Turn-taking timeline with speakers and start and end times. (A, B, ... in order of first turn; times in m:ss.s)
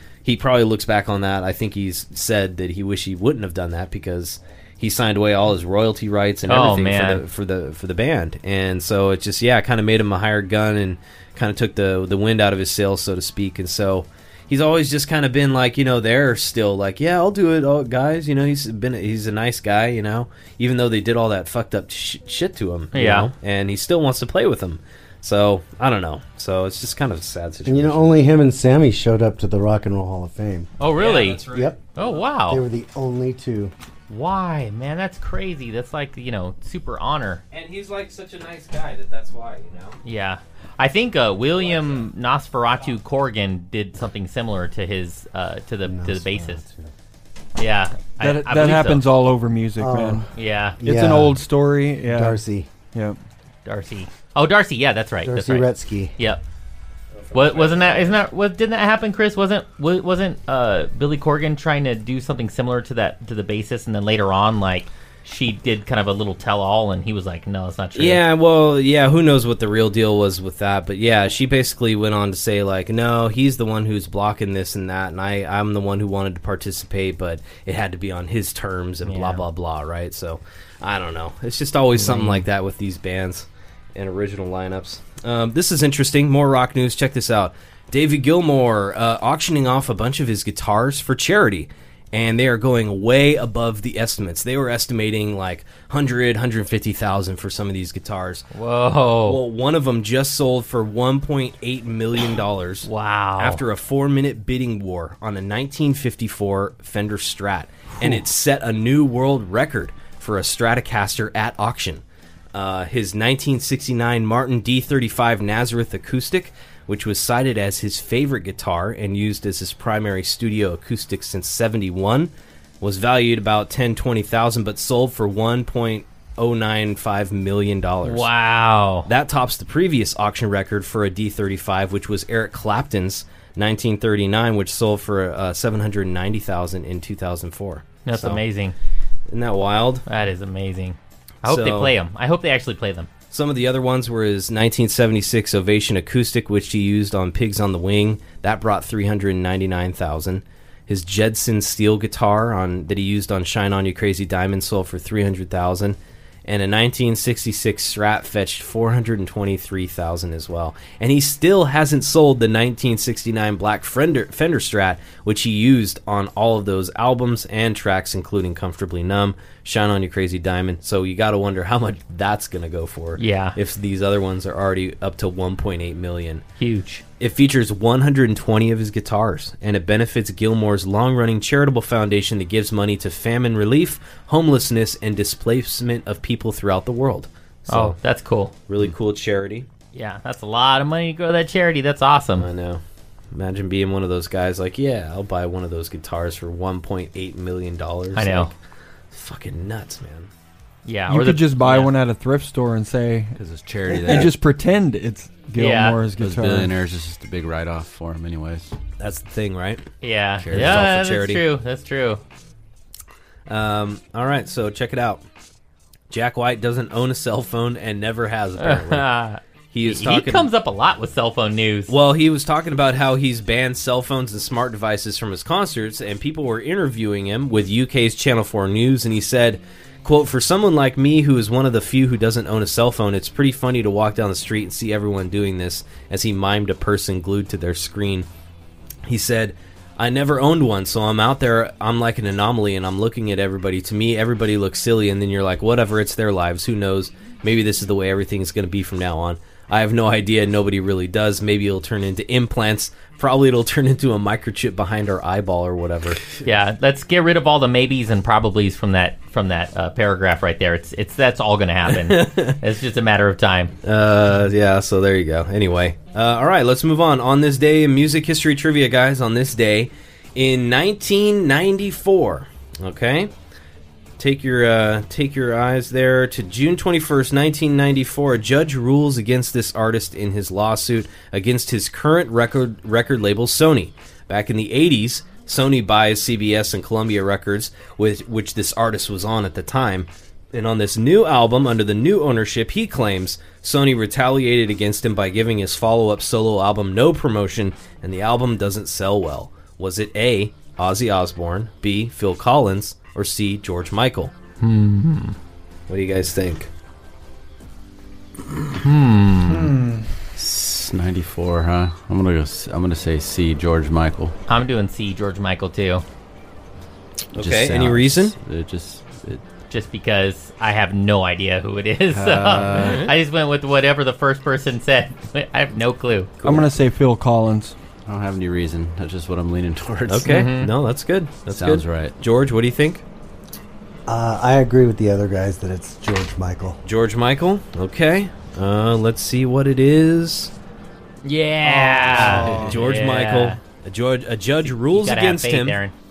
0:00.2-0:28.1 A
0:06.5-0:07.2 B
0:22.9-0:23.3 B
0:27.6-0:30.7 C
0:30.8-0:31.4 B
0:31.0-0:32.2 A
0:31.5-0:31.8 C
0:32.0-0:32.6 B
0:32.5-0:33.7 C
0:34.1-0:37.4 B
0:37.5-0:40.0 A
0:40.0-0:46.6 B
0:41.6-0:42.0 A
0:45.8-0:46.9 C
0:47.6-0:49.0 B
0:48.2-0:50.3 D
0:49.8-0:50.3 C
0:50.3-0:50.8 B
0:50.8-0:51.4 C
0:50.8-0:52.4 D
0:52.0-0:52.7 C
0:53.6-0:56.4 B
0:55.2-0:56.1 C
0:57.2-0:58.2 A
0:57.3-1:08.2 B
1:08.0-1:38.5 A
1:19.0-1:19.4 B
1:22.0-1:22.4 B
1:38.5-1:39.4 B
1:39.2-1:52.0 A
1:42.8-1:43.6 B
1:52.5-2:08.3 A
2:08.0-2:09.1 B
2:09.0-2:18.4 A
2:18.0-2:18.7 B
2:19.3-2:20.0 A
2:20.0-2:23.1 B
2:21.4-2:21.9 A
2:23.3-2:56.4 A
2:53.2-2:53.6 B
2:56.6-2:57.0 B
2:57.2-3:08.0 A
3:07.7-3:08.5 B
3:08.7-3:09.7 A
3:09.9-3:12.5 B
3:12.4-3:12.8 A
3:13.3-3:18.5 A
3:18.1-3:18.5 B
3:19.1-3:20.3 A
3:20.8-3:21.9 B
3:21.1-3:23.4 D
3:23.4-3:24.3 E
3:23.9-3:26.7 D
3:25.6-3:26.0 B
3:26.2-3:28.7 E
3:29.0-3:29.8 A
3:30.0-3:32.2 B
3:30.4-3:30.9 E
3:30.5-3:31.4 A
3:33.5-3:35.2 A
3:36.1-3:39.1 A
3:38.6-3:41.9 B
3:39.7-3:40.5 A
3:41.9-3:58.3 A
3:59.0-4:16.2 A
4:16.4-4:23.7 B
4:21.9-4:22.6 A
4:23.8-4:33.3 A
4:34.2-5:04.3 A
5:04.6-5:05.4 B
5:05.9-5:06.7 A
5:08.8-5:09.8 B
5:10.4-5:14.3 E
5:14.5-5:16.0 B
5:17.3-5:18.3 A
5:17.3-5:19.4 E
5:19.7-5:26.3 B
5:22.1-5:23.1 E
5:26.4-5:27.7 D
5:28.0-5:30.4 E
5:30.1-5:33.0 A
5:30.2-5:30.7 B
5:31.5-5:32.1 E
5:34.1-5:36.8 C
5:36.8-5:40.5 A
5:41.2-5:43.6 B
5:42.0-5:42.7 C
5:42.1-5:45.8 A
5:44.7-5:45.9 B